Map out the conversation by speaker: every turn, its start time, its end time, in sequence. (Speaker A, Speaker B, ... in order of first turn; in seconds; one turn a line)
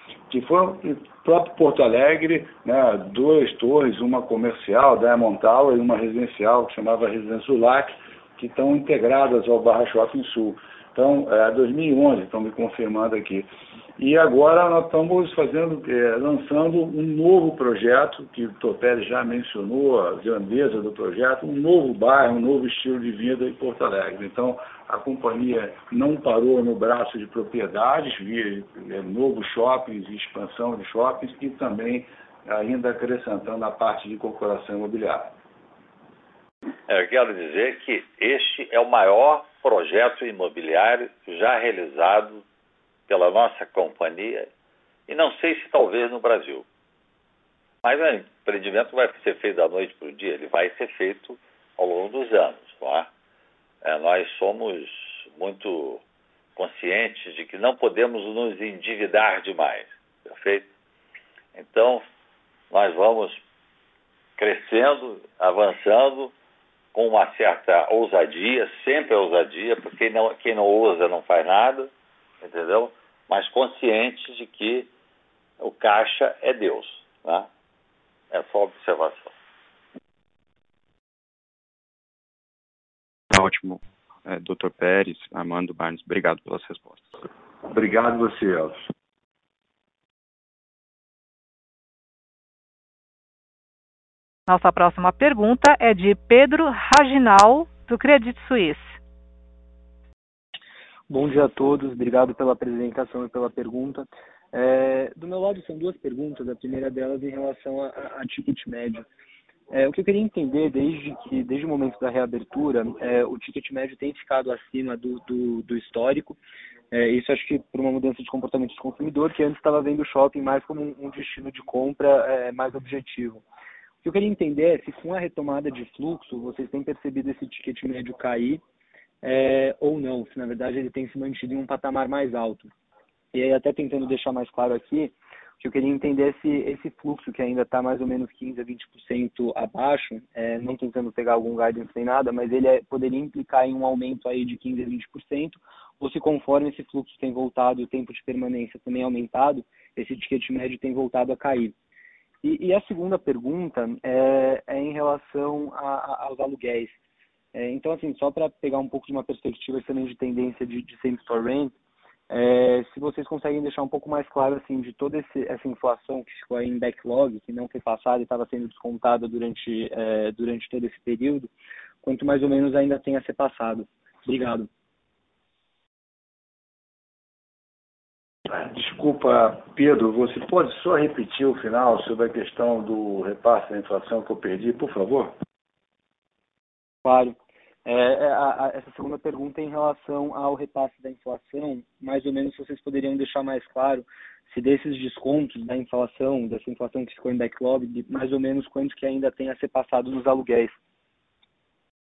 Speaker A: 0.3-35.3
Speaker B: 36.9-42.4
Speaker B: 43.1-44.5
Speaker B: 45.1-46.6
Speaker B: 47.8-53.1
Speaker B: 53.8-56.0
Speaker B: 56.5-60.7
Speaker B: 61.5-62.0
Speaker B: 62.7-63.4
Speaker B: 64.4-66.3
Speaker B: 66.9-71.9
Speaker B: 72.4-74.9
Speaker B: 75.6-77.5
Speaker B: 78.3-79.3
Speaker C: 83.3-87.0
Speaker A: 87.6-88.9
Speaker D: 94.5-99.0
Speaker E: 101.1-109.0
Speaker E: 109.7-116.4
Speaker E: 116.9-123.4
Speaker E: 124.0-128.6
Speaker E: 129.2-132.7
Speaker E: 133.3-151.7
Speaker E: 152.4-157.0
Speaker E: 157.5-161.7
Speaker E: 162.3-171.5
Speaker E: 172.0-174.7
Speaker A: 178.5-185.3
Speaker E: 187.0-200.8